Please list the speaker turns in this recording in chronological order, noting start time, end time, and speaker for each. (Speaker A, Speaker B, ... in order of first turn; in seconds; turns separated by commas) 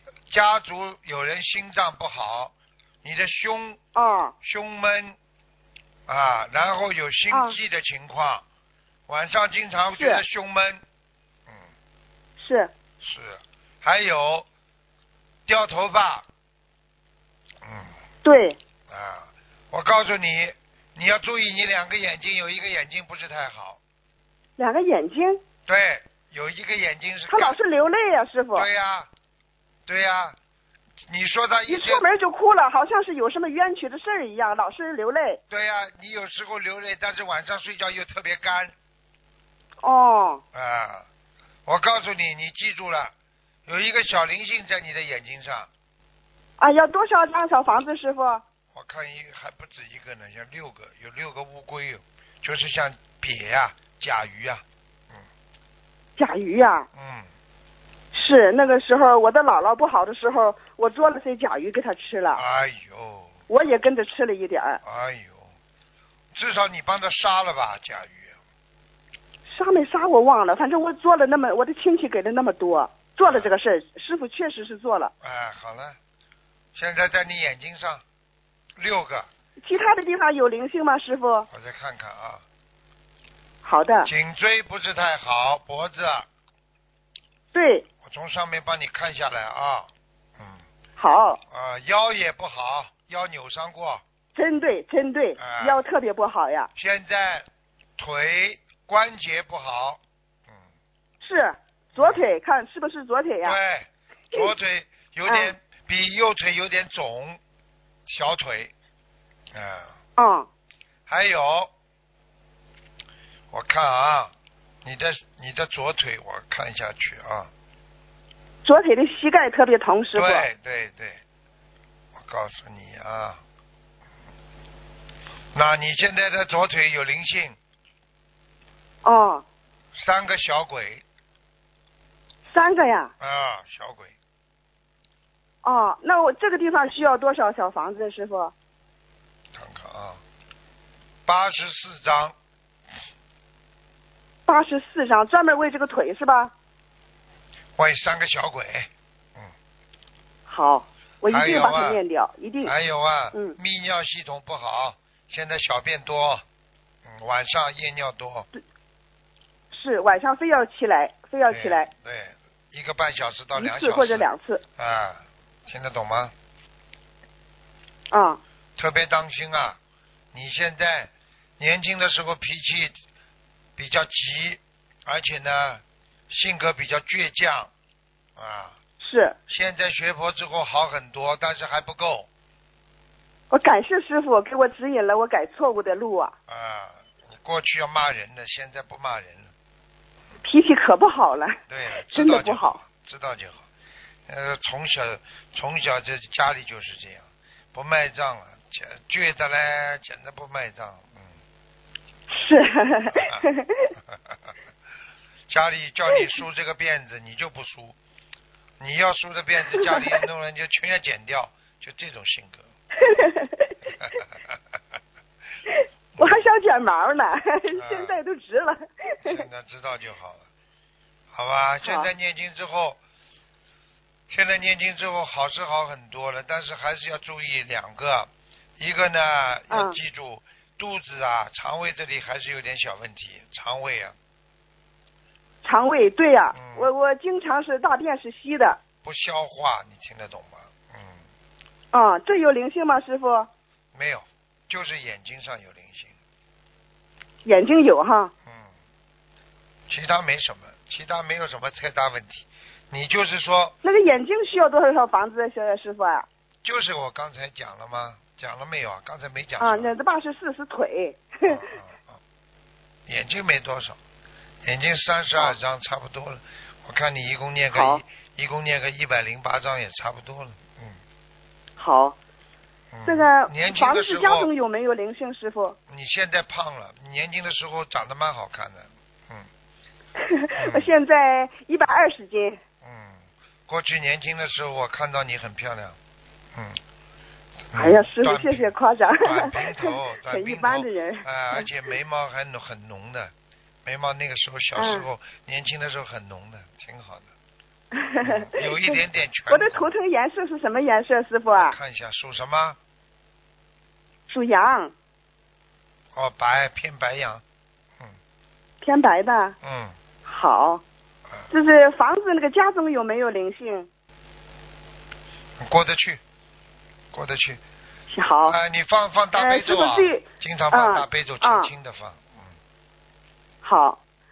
Speaker A: 0.3-3.8, Speaker B: 3.9-4.3, Speaker A: 4.4-5.2, Speaker A: 6.1-8.4, Speaker B: 7.3-7.5, Speaker A: 9.1-10.8, Speaker B: 9.9-10.2, Speaker B: 12.4-12.7, Speaker A: 13.0-14.4, Speaker A: 15.5-16.3, Speaker A: 17.6-17.9, Speaker B: 18.2-18.6, Speaker A: 18.9-23.8, Speaker B: 24.6-25.4, Speaker A: 25.7-27.6, Speaker B: 27.3-28.7, Speaker A: 28.5-29.1, Speaker A: 29.9-30.4, Speaker A: 31.1-32.0, Speaker B: 31.7-35.4, Speaker A: 35.5-38.7, Speaker B: 39.8-40.4, Speaker A: 40.5-41.0, Speaker A: 41.6-43.1, Speaker A: 43.6-45.7, Speaker B: 46.6-48.4, Speaker A: 48.7-55.2, Speaker B: 56.2-56.9, Speaker A: 56.9-57.3, Speaker B: 58.1-62.4, Speaker A: 62.3-63.4, Speaker B: 63.5-64.8, Speaker A: 64.8-65.5, Speaker A: 66.3-68.4, Speaker B: 69.5-75.1, Speaker A: 73.2-73.5, Speaker A: 75.2-76.0, Speaker A: 76.7-78.0, Speaker A: 78.8-79.3, Speaker B: 79.6-81.5, Speaker A: 81.5-82.4, Speaker B: 83.6-84.1, Speaker A: 84.0-86.3, Speaker B: 87.5-87.8, Speaker A: 88.0-90.6, Speaker B: 91.0-91.4, Speaker A: 91.5-94.0, Speaker B: 94.3-96.7, Speaker A: 95.4-95.8, Speaker A: 96.8-97.5, Speaker A: 98.0-100.6, Speaker B: 101.2-103.6, Speaker A: 102.0-102.3, Speaker A: 103.4-107.4, Speaker B: 105.3-105.5, Speaker A: 108.0-108.7, Speaker A: 109.5-110.0, Speaker B: 110.2-110.5, Speaker A: 111.1-111.7, Speaker A: 113.5-114.3, Speaker A: 114.8-117.5, Speaker B: 118.6-120.5, Speaker A: 120.1-121.2, Speaker A: 122.2-123.4, Speaker A: 125.5-127.6, Speaker B: 129.0-129.4, Speaker A: 129.9-131.0, Speaker B: 132.5-133.1, Speaker A: 133.2-134.1, Speaker B: 135.6-138.5, Speaker A: 139.5-140.2, Speaker A: 141.2-142.3, Speaker B: 144.4-146.5, Speaker A: 147.8-149.5, Speaker B: 150.5-152.7, Speaker A: 151.3-152.0, Speaker A: 152.6-156.4, Speaker A: 157.0-158.5, Speaker B: 159.7-161.9, Speaker A: 161.5-166.3, Speaker B: 163.5-164.6, Speaker B: 168.1-168.4, Speaker A: 168.8-169.8, Speaker A: 170.3-173.0, Speaker A: 173.8-177.7, Speaker A: 178.3-178.8, Speaker B: 179.0-179.4, Speaker A: 179.5-182.3, Speaker B: 183.5-186.3, Speaker A: 186.5-189.5, Speaker B: 190.4-191.6, Speaker A: 191.7-193.7, Speaker B: 192.1-192.8, Speaker A: 194.3-201.3, Speaker B: 202.3-203.9, Speaker A: 203.2-203.4, Speaker A: 205.5-208.0, Speaker A: 208.8-212.7, Speaker B: 209.8-210.1, Speaker B: 213.0-213.7, Speaker A: 216.2-216.4, Speaker B: 216.2-219.4, Speaker A: 217.8-218.2, Speaker A: 219.2-220.5, Speaker A: 221.3-223.0, Speaker B: 221.8-222.1, Speaker A: 224.3-234.1, Speaker B: 229.7-230.0, Speaker B: 235.6-238.8, Speaker A: 236.5-236.9, Speaker A: 239.0-241.2, Speaker B: 241.9-243.5, Speaker A: 243.9-246.1, Speaker B: 247.4-248.3, Speaker A: 248.4-248.7, Speaker A: 249.9-253.7, Speaker B: 253.8-256.3, Speaker A: 256.6-259.9, Speaker B: 259.6-261.7, Speaker A: 261.5-262.2, Speaker A: 263.1-264.0, Speaker A: 264.6-271.0, Speaker B: 267.7-268.0, Speaker B: 271.8-272.2, Speaker A: 272.9-274.5, Speaker B: 273.1-275.8, Speaker A: 275.9-279.5, Speaker B: 280.2-282.6, Speaker A: 280.6-280.9, Speaker A: 282.8-286.0, Speaker A: 286.5-286.8, Speaker A: 287.7-293.3, Speaker B: 287.7-291.6, Speaker A: 293.8-297.3, Speaker B: 294.8-295.1, Speaker B: 297.9-301.8, Speaker A: 298.2-299.9, Speaker A: 301.6-302.8, Speaker B: 304.3-304.9, Speaker A: 306.1-307.4, Speaker B: 308.8-309.6, Speaker A: 309.6-309.9, Speaker B: 310.2-310.8, Speaker B: 311.5-313.9, Speaker A: 315.6-316.2, Speaker A: 317.1-317.6, Speaker B: 318.1-318.6, Speaker A: 318.4-322.5, Speaker B: 319.4-321.7, Speaker B: 323.6-324.0